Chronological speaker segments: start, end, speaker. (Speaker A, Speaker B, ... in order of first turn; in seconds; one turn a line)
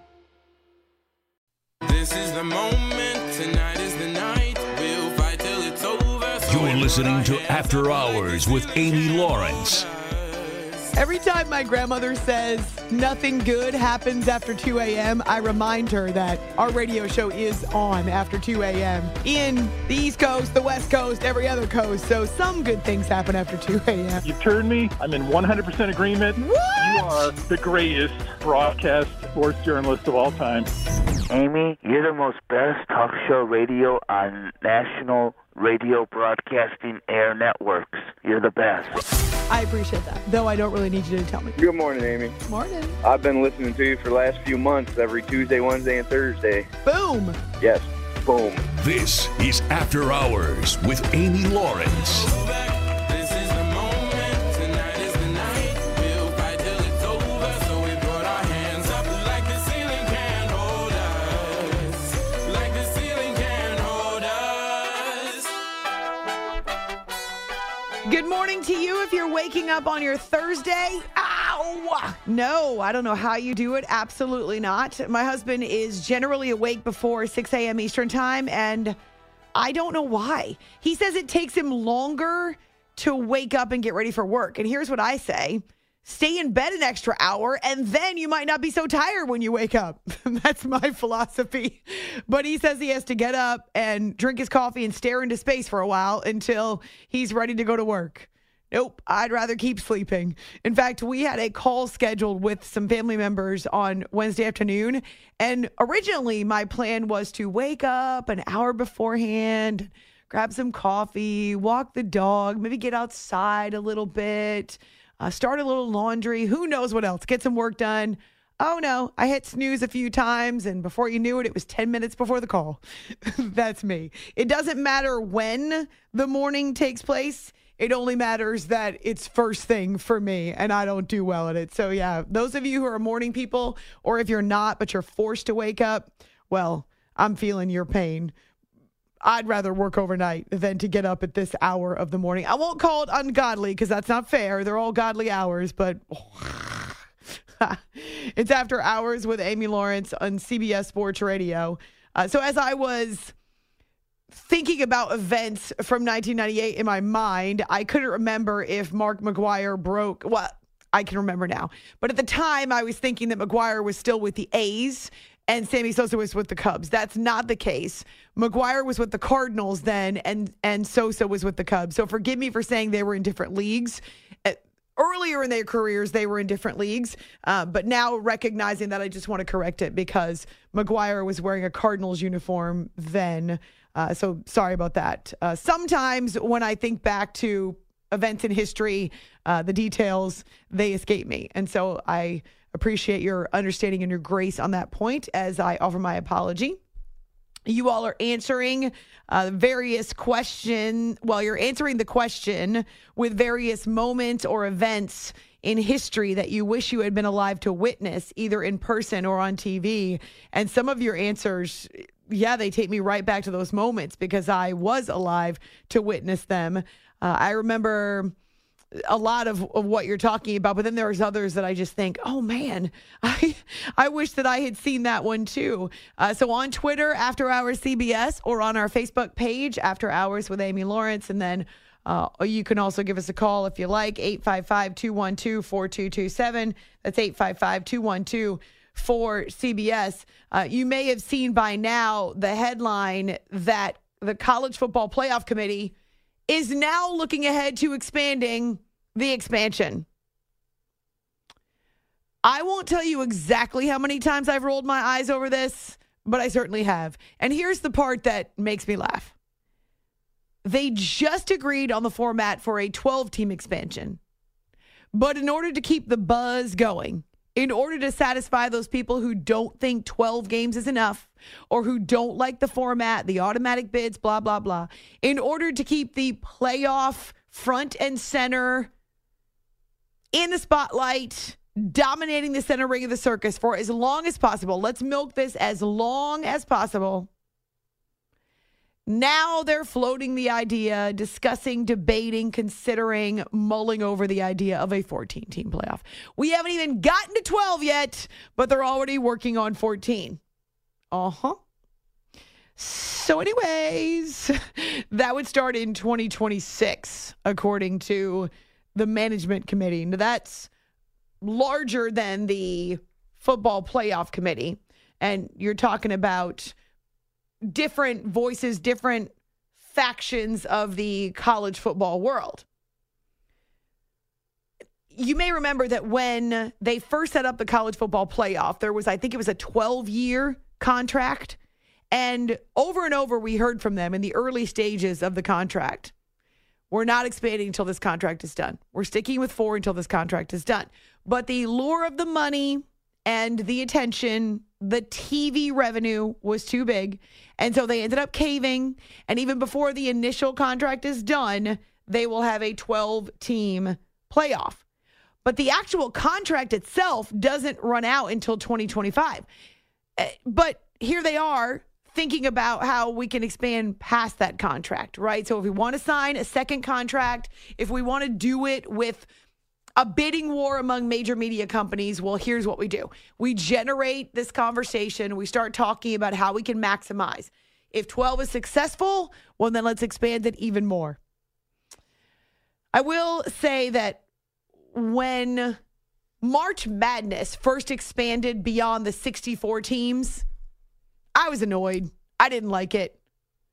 Speaker A: 1.8-10.8
Speaker B: 6.5-9.8
Speaker C: 10.9-24.2
Speaker D: 24.2-30.7
Speaker C: 26.4-27.3
Speaker E: 31.3-39.0
Speaker C: 39.5-41.5
Speaker F: 41.6-42.4
Speaker C: 42.5-43.0
Speaker F: 43.0-46.7
Speaker C: 46.8-47.4
Speaker F: 47.6-48.6
Speaker B: 48.7-52.3
Speaker A: 52.1-65.5
Speaker C: 68.0-79.0
Speaker C: 79.5-138.3
Speaker C: 139.2-147.0
Speaker C: 147.6-153.3
Speaker C: 154.3-196.8
Speaker C: 197.7-218.3
Speaker C: 218.9-245.9
Speaker C: 246.5-250.1
Speaker C: 252.4-259.3
Speaker C: 260.6-264.2
Speaker C: 265.1-278.9
Speaker C: 280.3-287.3
Speaker C: 289.1-300.4
Speaker C: 301.1-301.6
Speaker C: 302.8-310.7
Speaker C: 311.4-316.7
Speaker C: 317.7-319.3
Speaker C: 319.9-322.6
Speaker C: 325.1-331.6
Speaker C: 332.1-336.1
Speaker C: 336.9-354.8
Speaker C: 355.4-359.4
Speaker C: 360.2-369.2
Speaker C: 370.0-381.2
Speaker C: 382.9-384.2
Speaker C: 384.9-385.8
Speaker C: 386.4-390.4
Speaker C: 391.3-393.2